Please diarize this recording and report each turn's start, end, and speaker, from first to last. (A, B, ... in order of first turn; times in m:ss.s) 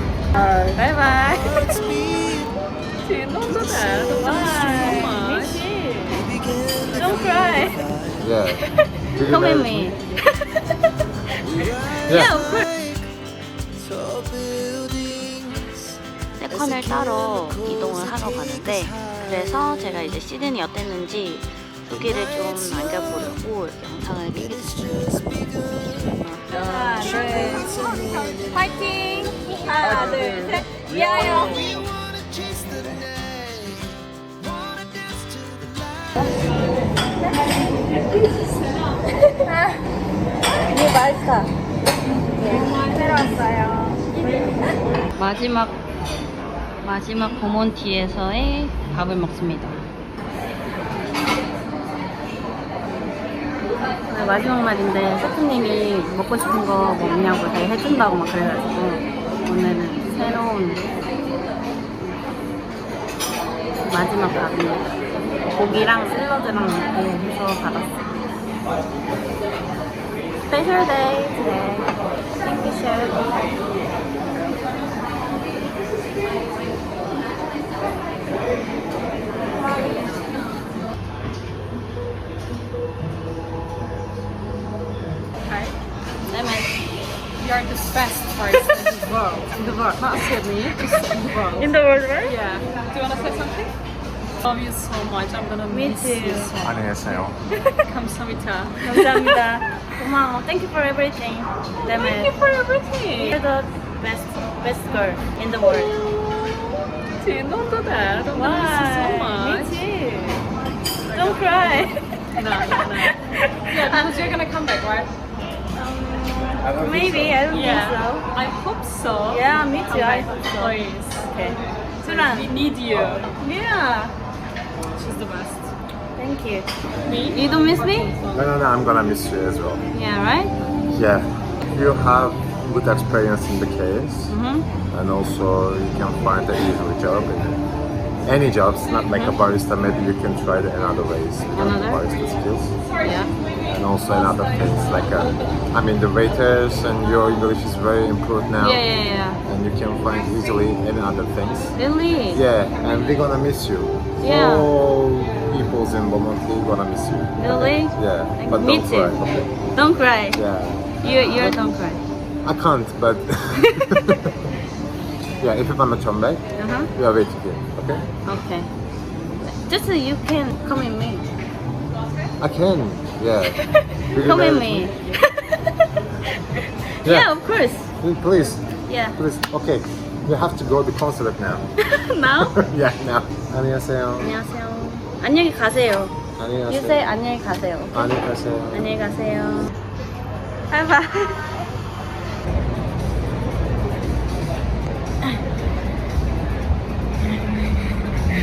0:00.4-0:00.8 A
0:00.8-0:01.8 B
0:03.1-0:05.6 A
0:03.6-0:06.3 B
0:06.9-0:07.9 B
0:08.2-0:10.0 C
0:09.2-0:10.5 B
0:11.6-0:12.7 B
0:12.0-0:12.4 C
0:16.4-0:31.9 B
0:39.4-0:39.8 B
0:40.7-0:41.5 B
0:42.3-0:44.2 B
0:42.6-0:43.2 A
0:45.2-0:45.8 B
0:46.8-0:49.8 B
0:54.1-1:00.9 B
1:03.9-1:04.9 B
1:05.5-1:08.2 B
1:10.5-1:13.4 B
1:26.3-1:26.8 B
1:27.4-1:31.7 A
1:31.6-1:32.4 B
1:32.2-1:33.8 A
1:34.4-1:36.8 A
1:35.7-1:36.6 B
1:36.6-1:37.4 C
1:37.9-1:39.4 A
1:38.8-1:42.3 B
1:41.8-1:43.4 A
1:43.1-1:45.9 B
1:46.0-1:46.3 A
1:47.2-1:49.8 A
1:48.3-1:50.4 B
1:51.0-1:51.4 A
1:51.1-1:54.4 B
1:52.4-1:55.1 A
1:55.8-1:58.3 B
1:57.5-2:01.4 A
1:59.3-2:02.6 B
2:02.0-2:03.3 A
2:03.4-2:04.1 B
2:05.0-2:05.8 A
2:06.2-2:08.1 B
2:07.0-2:08.5 A
2:08.3-2:09.8 C
2:09.9-2:10.5 B
2:10.9-2:14.4 C
2:14.3-2:14.7 B
2:14.9-2:17.6 C
2:18.2-2:22.8 C
2:19.1-2:19.4 B
2:21.5-2:22.0 B
2:23.0-2:23.3 B
2:23.7-2:28.8 C
2:28.6-2:29.4 B
2:29.4-2:31.8 C
2:31.8-2:32.4 B
2:32.3-2:39.5 C
2:34.2-2:34.7 B
2:37.4-2:39.2 B
2:39.7-2:40.4 B
2:40.3-2:41.7 C
2:41.0-2:42.0 B
2:42.4-2:44.3 C
2:43.6-2:43.9 B
2:45.4-2:48.1 C
2:46.6-2:46.9 B
2:48.2-2:48.7 B
2:49.4-2:51.3 B
2:52.4-2:53.6 C
2:54.1-2:54.9 C
2:54.2-2:55.9 B
2:56.6-2:57.9 B
2:57.0-2:57.3 C
2:58.0-3:01.7 C
2:58.9-2:59.2 B
3:01.8-3:02.5 B
3:02.4-3:04.3 C
3:04.2-3:06.1 B
3:06.4-3:07.1 C
3:06.7-3:08.0 B
3:07.9-3:08.9 C
3:08.7-3:09.7 B
3:10.7-3:11.5 B